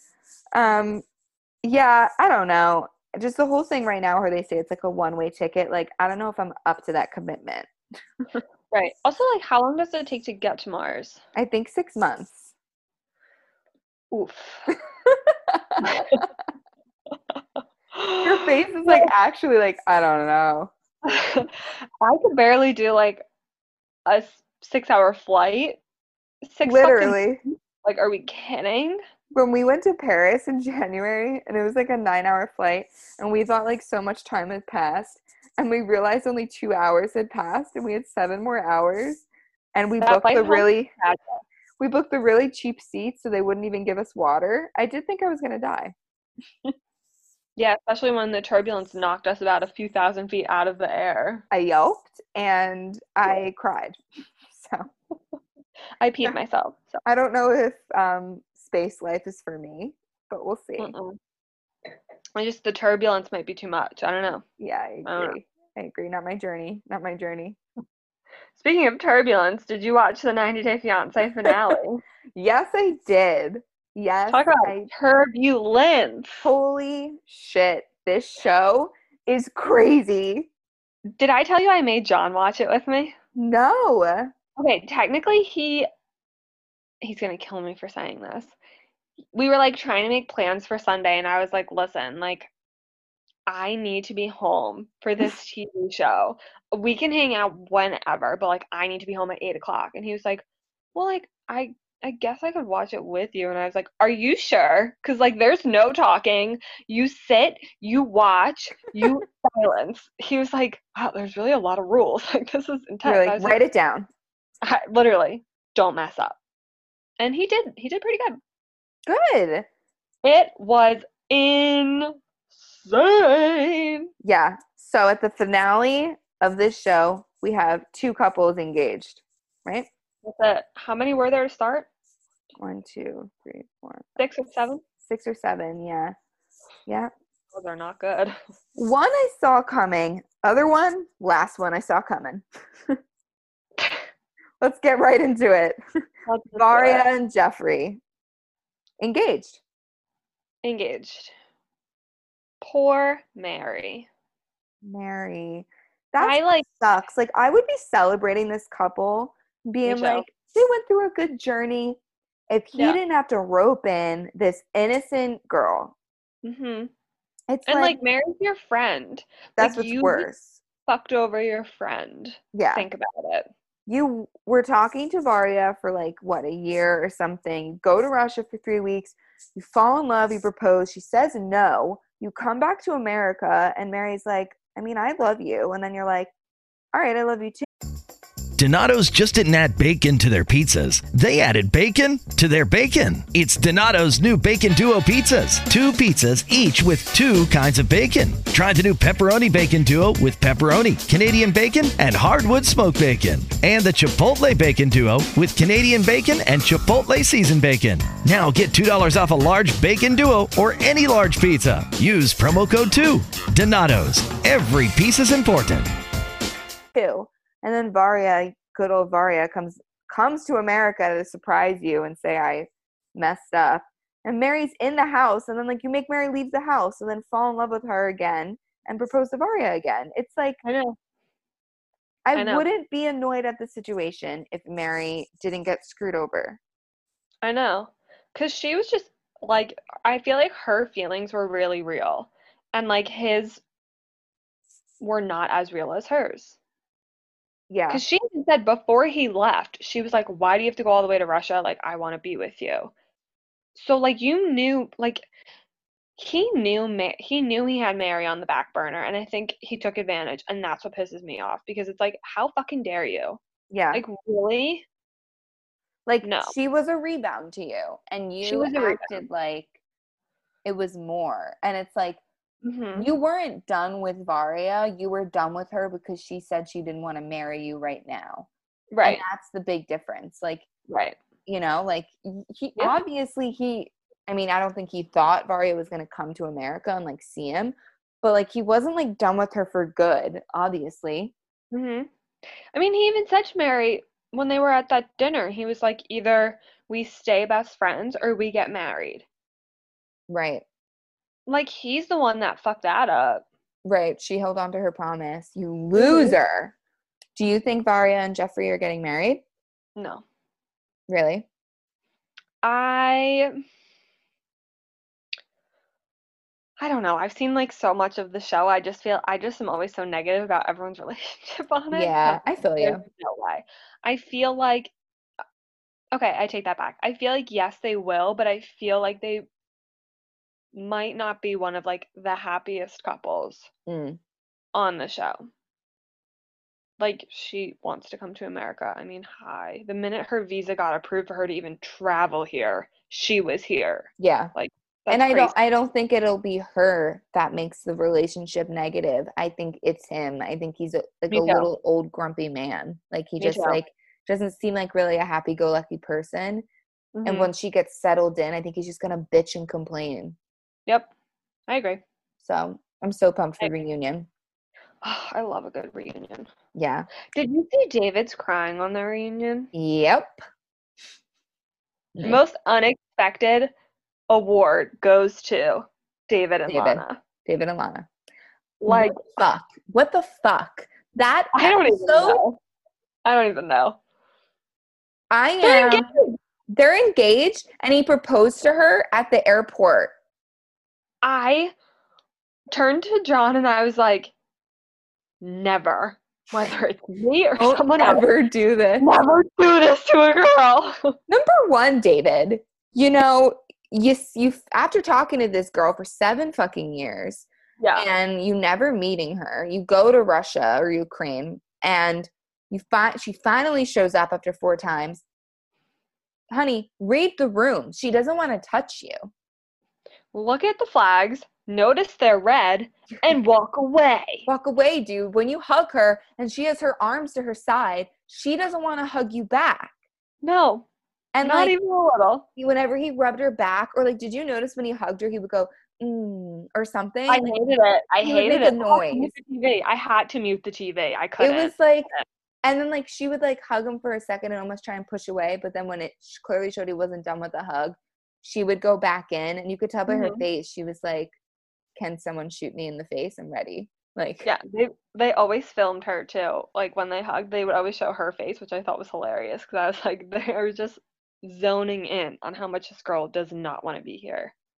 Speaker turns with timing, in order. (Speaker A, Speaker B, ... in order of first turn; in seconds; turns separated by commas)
Speaker A: 0.5-1.0, Speaker A: 1.6-7.7, Speaker B: 8.7-11.2, Speaker A: 11.3-12.5, Speaker B: 14.1-14.8, Speaker A: 15.1-16.2, Speaker B: 15.8-16.2, Speaker B: 17.4-19.1, Speaker A: 18.2-20.7, Speaker B: 21.1-23.2, Speaker B: 24.1-25.8, Speaker B: 26.4-27.2, Speaker A: 26.6-27.4, Speaker B: 27.8-29.0, Speaker A: 29.3-40.9, Speaker B: 40.0-41.4, Speaker A: 41.8-46.0, Speaker B: 47.6-51.4, Speaker A: 51.5-54.9, Speaker B: 56.0-57.0, Speaker A: 57.0-61.0, Speaker B: 60.8-61.2, Speaker B: 62.3-64.4, Speaker A: 64.6-67.6, Speaker B: 65.0-65.4, Speaker B: 68.5-72.0, Speaker A: 72.3-74.9, Speaker B: 74.3-76.5, Speaker A: 76.4-80.5, Speaker B: 81.2-83.1, Speaker A: 83.3-84.3, Speaker B: 84.6-85.9, Speaker B: 87.0-88.5, Speaker B: 89.3-92.5, Speaker B: 93.5-100.4, Speaker B: 100.9-113.6, Speaker A: 113.0-114.1, Speaker B: 114.6-116.4, Speaker B: 117.2-118.4, Speaker A: 119.0-119.7, Speaker B: 120.2-124.1, Speaker A: 124.2-129.9, Speaker B: 130.2-131.9, Speaker A: 132.6-134.1, Speaker B: 134.2-134.8, Speaker A: 135.0-136.2, Speaker B: 137.5-138.3, Speaker A: 138.8-143.0, Speaker A: 144.6-145.8, Speaker B: 146.3-147.1, Speaker A: 146.6-148.0, Speaker A: 149.0-149.6, Speaker B: 150.6-151.3, Speaker B: 152.6-154.1, Speaker A: 154.8-165.9, Speaker B: 156.2-156.7, Speaker B: 159.8-160.2, Speaker B: 166.4-166.9, Speaker A: 167.5-168.0, Speaker B: 167.7-170.3, Speaker A: 169.6-170.6, Speaker B: 170.8-173.5, Speaker A: 172.5-172.8, Speaker A: 173.9-186.3, Speaker A: 186.9-187.7, Speaker C: 188.6-215.9, Speaker A: 216.9-230.6, Speaker B: 230.6-230.9, Speaker A: 232.2-236.6, Speaker B: 232.3-232.7, Speaker B: 237.4-243.6, Speaker B: 245.0-246.6, Speaker A: 247.7-248.0, Speaker B: 247.9-252.9, Speaker B: 253.7-255.2, Speaker B: 256.2-263.4, Speaker A: 263.7-264.0, Speaker B: 263.9-264.8, Speaker A: 266.1-269.7, Speaker B: 266.2-266.5, Speaker B: 268.4-269.2, Speaker A: 270.6-272.2, Speaker B: 272.6-273.1, Speaker A: 272.9-278.5, Speaker B: 278.9-279.2, Speaker A: 279.0-280.7, Speaker B: 280.9-281.2, Speaker A: 281.5-291.3, Speaker B: 291.7-292.1, Speaker B: 292.7-299.2, Speaker A: 300.3-300.6, Speaker B: 301.5-303.4, Speaker A: 303.8-306.7, Speaker B: 305.9-306.4, Speaker A: 307.3-309.4, Speaker B: 309.9-310.2, Speaker A: 311.1-311.5, Speaker B: 312.6-313.6, Speaker B: 316.8-324.9, Speaker A: 321.9-323.0, Speaker B: 326.1-329.4, Speaker B: 330.7-333.7, Speaker A: 333.9-334.2, Speaker B: 334.7-335.5, Speaker B: 337.0-345.5, Speaker A: 344.2-344.5, Speaker A: 345.1-356.6, Speaker B: 351.3-351.7, Speaker B: 353.4-353.8, Speaker B: 357.1-357.5, Speaker A: 357.2-360.4, Speaker B: 361.7-362.0, Speaker A: 362.4-364.3, Speaker B: 365.0-366.5, Speaker A: 366.7-367.1, Speaker B: 367.3-369.7, Speaker A: 369.7-370.4, Speaker A: 372.1-372.4, Speaker B: 372.2-373.7, Speaker B: 374.3-377.2, Speaker A: 376.7-378.1, Speaker B: 378.8-379.3, Speaker A: 378.9-382.4, Speaker B: 381.5-382.6, Speaker B: 383.2-384.0, Speaker A: 385.3-386.1, Speaker B: 385.6-386.4, Speaker A: 386.7-390.1, Speaker B: 391.2-391.7, Speaker B: 392.7-394.3, Speaker B: 395.4-398.2, Speaker A: 397.6-399.1, Speaker B: 399.0-401.1, Speaker A: 401.3-415.2, Speaker B: 407.8-408.1, Speaker A: 416.5-419.3, Speaker B: 420.3-424.5, Speaker A: 424.5-429.9, Speaker B: 430.4-430.8, Speaker A: 431.3-431.7, Speaker B: 431.4-432.4, Speaker A: 432.6-437.6, Speaker B: 437.3-442.2, Speaker A: 438.2-439.3, Speaker A: 441.4-442.1, Speaker A: 442.6-451.3, Speaker B: 450.1-450.4, Speaker A: 451.9-454.5, Speaker B: 454.4-464.5